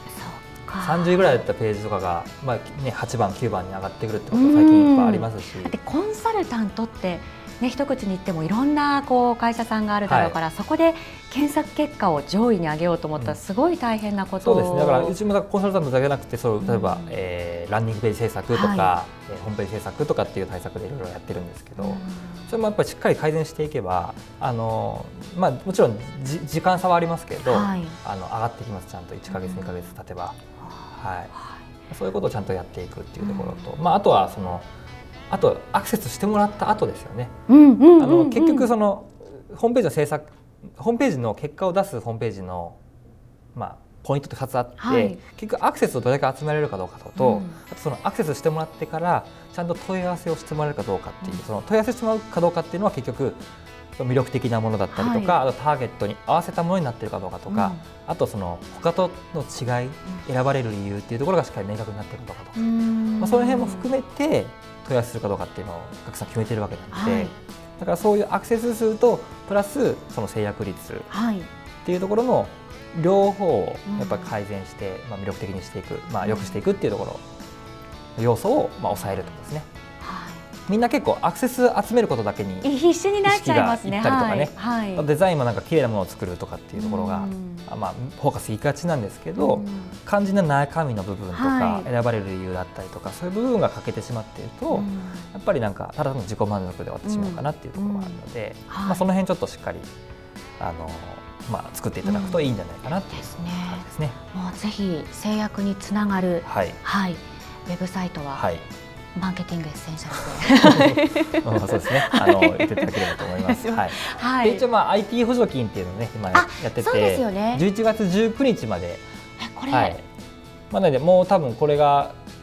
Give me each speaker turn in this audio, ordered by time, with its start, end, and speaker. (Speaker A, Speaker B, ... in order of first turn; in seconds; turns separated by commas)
Speaker A: 0.2-1.2, Speaker B: 0.8-5.7, Speaker A: 4.3-15.2, Speaker B: 10.1-10.4, Speaker B: 14.4-30.4, Speaker A: 16.6-17.2, Speaker A: 18.5-18.9, Speaker A: 21.8-22.4, Speaker A: 27.4-27.9, Speaker A: 29.3-29.7, Speaker B: 30.9-31.3, Speaker B: 31.9-34.7, Speaker A: 33.2-33.7, Speaker B: 35.3-37.3, Speaker A: 37.5-38.7, Speaker B: 38.0-42.8, Speaker B: 43.5-53.4, Speaker A: 44.8-45.2, Speaker A: 47.2-47.6, Speaker B: 54.0-62.6, Speaker A: 54.9-55.4, Speaker A: 57.5-57.8, Speaker A: 62.5-63.9, Speaker B: 63.2-71.1, Speaker A: 66.9-67.3, Speaker A: 71.1-71.5, Speaker B: 71.8-77.2, Speaker A: 73.9-74.3, Speaker A: 76.2-76.5, Speaker B: 78.2-79.7, Speaker A: 80.0-80.4, Speaker B: 80.7-82.7, Speaker A: 82.6-85.0, Speaker B: 83.2-99.9, Speaker A: 86.8-87.7, Speaker A: 89.4-89.9, Speaker A: 91.3-91.9, Speaker A: 94.7-95.3, Speaker A: 97.0-99.0, Speaker B: 100.6-104.2, Speaker A: 102.0-102.5, Speaker A: 103.1-108.5, Speaker B: 106.4-106.8, Speaker B: 108.3-108.6, Speaker A: 109.1-114.6, Speaker B: 110.6-119.0, Speaker A: 116.3-117.6, Speaker A: 119.4-120.0, Speaker B: 119.7-120.0, Speaker B: 120.7-122.2